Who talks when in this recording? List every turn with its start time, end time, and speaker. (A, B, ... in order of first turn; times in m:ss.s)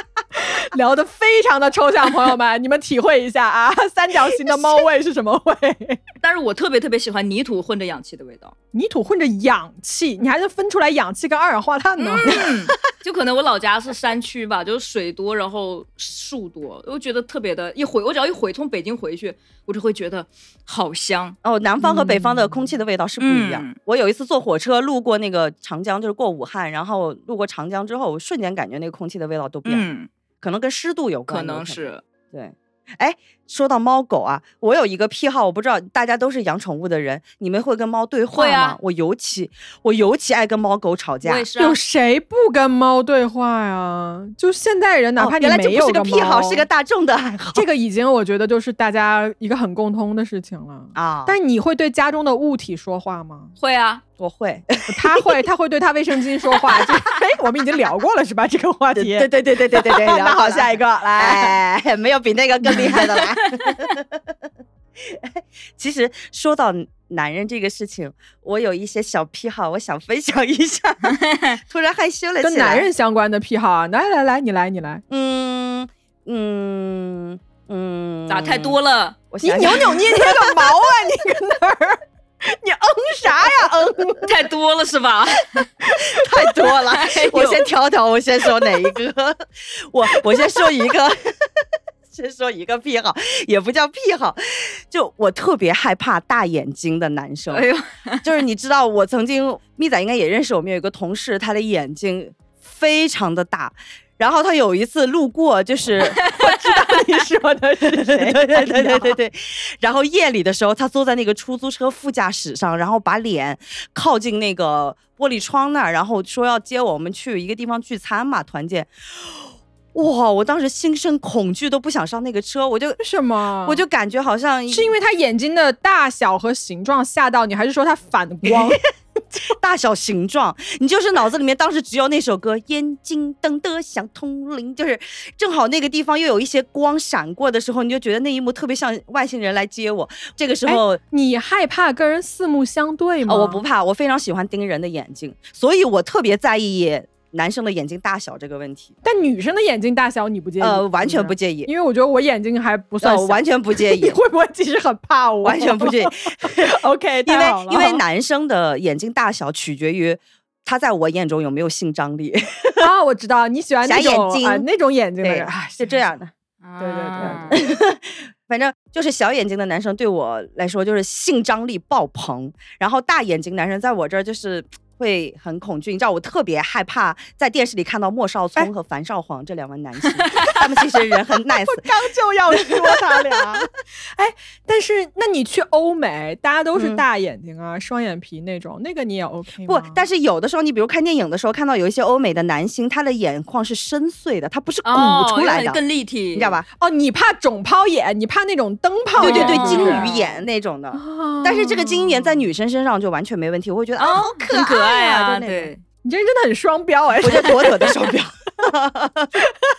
0:00.4-0:06.0 A
0:04.5-0:04.8 B
0:06.2-0:08.5 C
0:08.7-0:12.4 A
0:12.0-0:21.4 C
0:12.3-0:12.6 B
0:21.4-0:29.9 B
0:21.8-0:22.4 A
0:23.2-0:23.8 C
0:29.6-0:30.1 C
0:30.4-0:41.5 B
0:31.3-0:32.0 C
0:38.3-0:38.8 C
0:41.2-0:41.8 C
0:41.6-0:46.7 A
0:45.2-0:47.6 B
0:47.5-0:53.6 A
0:51.0-0:51.4 B
0:53.6-0:54.0 C
0:54.2-0:55.2 B
0:54.9-1:01.6 A
0:59.0-1:12.9 B
1:02.7-1:03.8 C
1:11.1-1:11.6 C
1:12.4-1:15.0 A
1:15.1-1:18.8 B
1:18.3-1:19.2 C
1:19.3-1:20.7 B
1:19.4-1:24.4 A
1:24.2-1:25.7 C
1:25.8-1:26.5 A
1:26.1-1:37.7 B
1:26.9-1:27.6 C
1:37.5-1:38.2 C
1:38.2-1:46.3 B
1:46.1-1:46.7 C
1:46.4-1:49.2 A
1:47.8-2:03.0 B
2:03.0-2:03.8 A
2:03.6-2:04.9 B
2:04.7-2:08.8 A
2:09.5-2:21.0 B
2:20.7-2:23.6 A
2:23.3-2:28.9 B
2:29.0-2:38.0 A
2:30.6-2:31.7 B
2:33.0-2:34.2 B
2:35.4-2:36.8 B
2:37.3-2:42.9 B
2:42.8-2:46.1 A
2:43.8-2:44.7 B
2:45.2-2:46.3 B
2:46.6-2:47.6 C
2:46.8-2:47.6 A
2:47.2-3:01.9 B
3:00.3-3:00.6 C
3:01.6-3:10.0 A
3:02.5-3:03.6 B
3:06.8-3:07.0 B
3:09.7-3:15.8 B
3:14.8-3:16.6 C
3:16.4-3:16.7 B
3:16.8-3:20.2 A
3:19.2-3:20.2 C
3:19.2-3:25.7 B
3:20.9-3:22.4 A
3:24.0-3:25.8 C
3:26.0-3:28.0 A
3:27.2-3:29.3 B